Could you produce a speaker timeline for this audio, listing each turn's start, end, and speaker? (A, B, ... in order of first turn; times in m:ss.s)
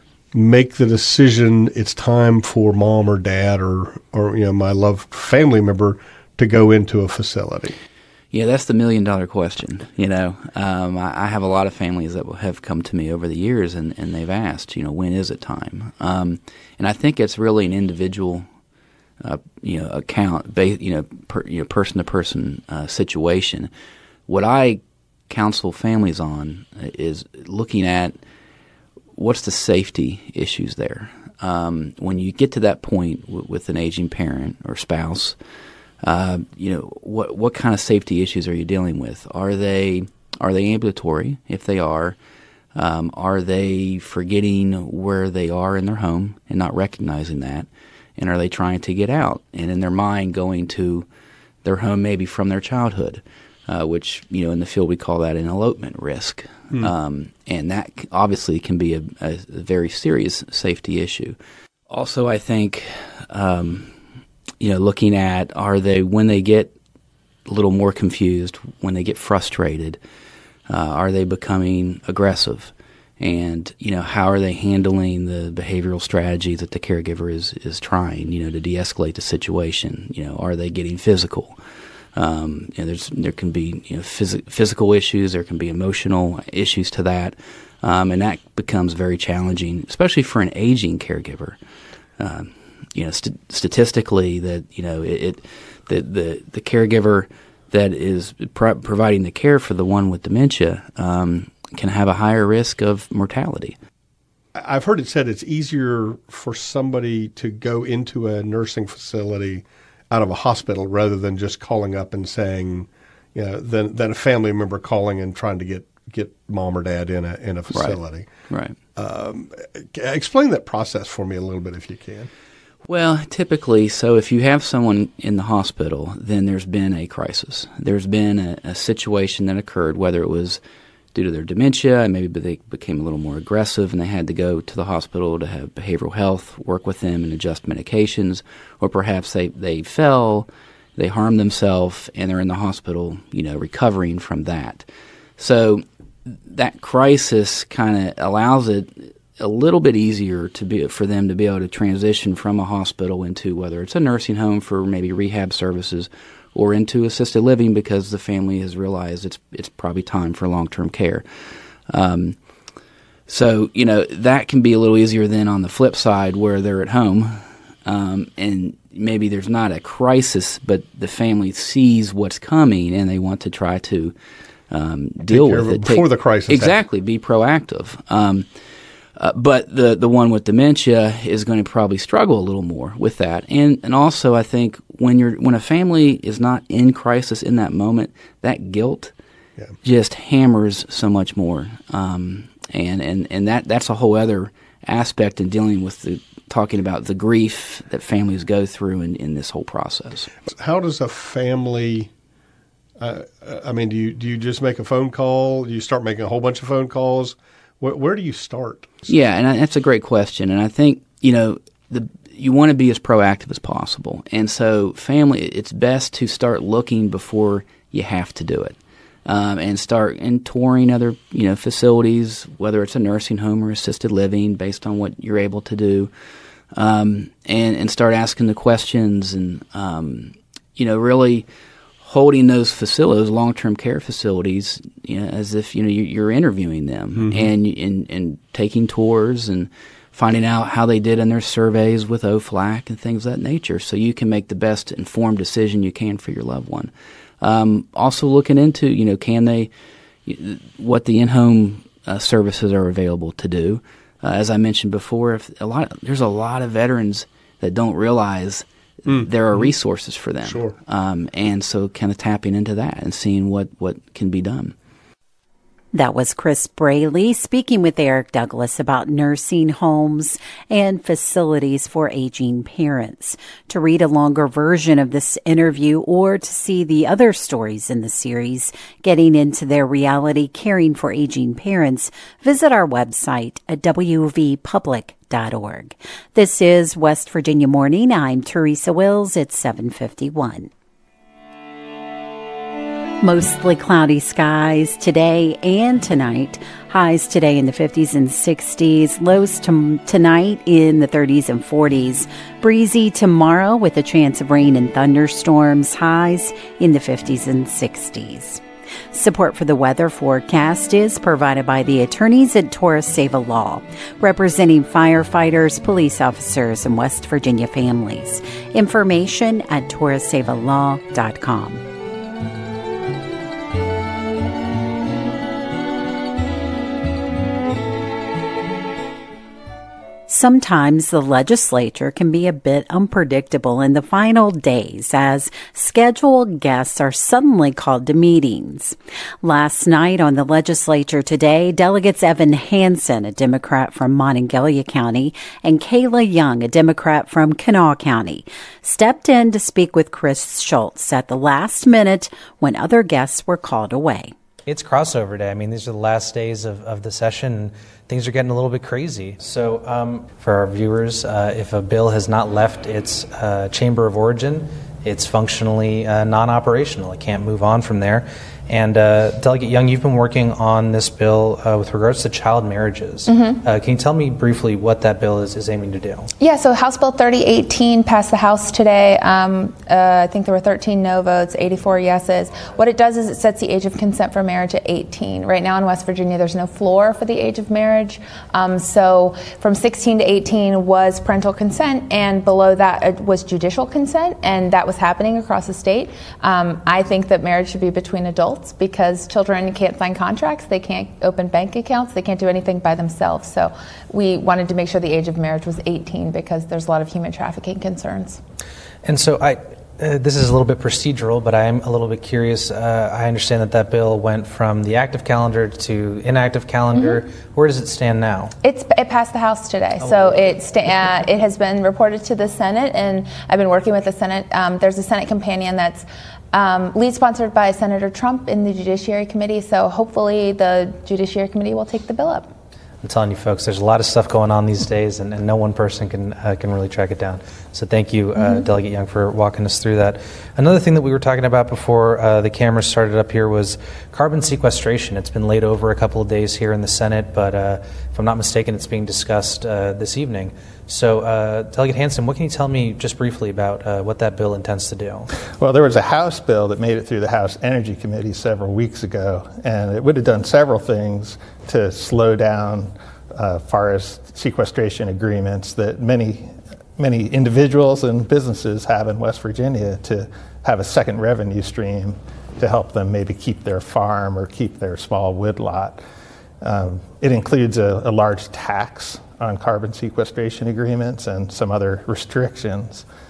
0:00.3-0:07.7 A
0:08.3-0:18.4 B
0:19.2-0:23.7 B
0:24.3-0:28.2 B
0:29.2-0:35.4 B
0:36.0-0:42.2 B
0:42.7-0:51.0 B
0:51.6-1:01.4 B
1:01.9-1:03.9 B
1:04.6-1:06.7 B
1:07.5-1:10.0 B
1:10.7-1:21.6 B
1:22.1-1:31.6 B
1:32.2-1:43.8 B
1:44.6-1:58.3 A
1:57.7-1:58.7 B
1:58.9-2:02.3 A
2:02.9-2:10.6 B
2:11.1-2:24.8 B
2:25.4-2:41.2 B
2:41.9-2:42.4 B
2:43.3-2:54.1 B
2:54.7-2:58.4 B
2:55.3-2:56.8 A
2:59.2-3:09.1 B
3:09.8-3:20.3 B
3:20.5-3:22.1 A
3:23.0-3:29.1 A
3:29.1-3:46.1 B
3:46.7-3:51.4 B
3:52.0-4:09.7 B
3:57.2-3:57.5 A
4:10.2-4:24.7 B
4:19.1-4:19.7 A
4:20.4-4:20.7 A
4:25.9-4:50.7 C
4:53.2-5:21.8 C
5:30.3-5:54.3 C
5:54.7-6:16.3 D
6:13.3-6:13.6 E
6:16.4-6:48.4 E
6:49.0-6:58.5 D
6:56.9-6:57.2 E
6:58.6-7:12.4 E
7:00.0-7:00.5 D
7:13.0-7:35.3 D
7:18.4-7:18.6 E
7:35.6-7:56.0 F
7:56.6-8:03.0 F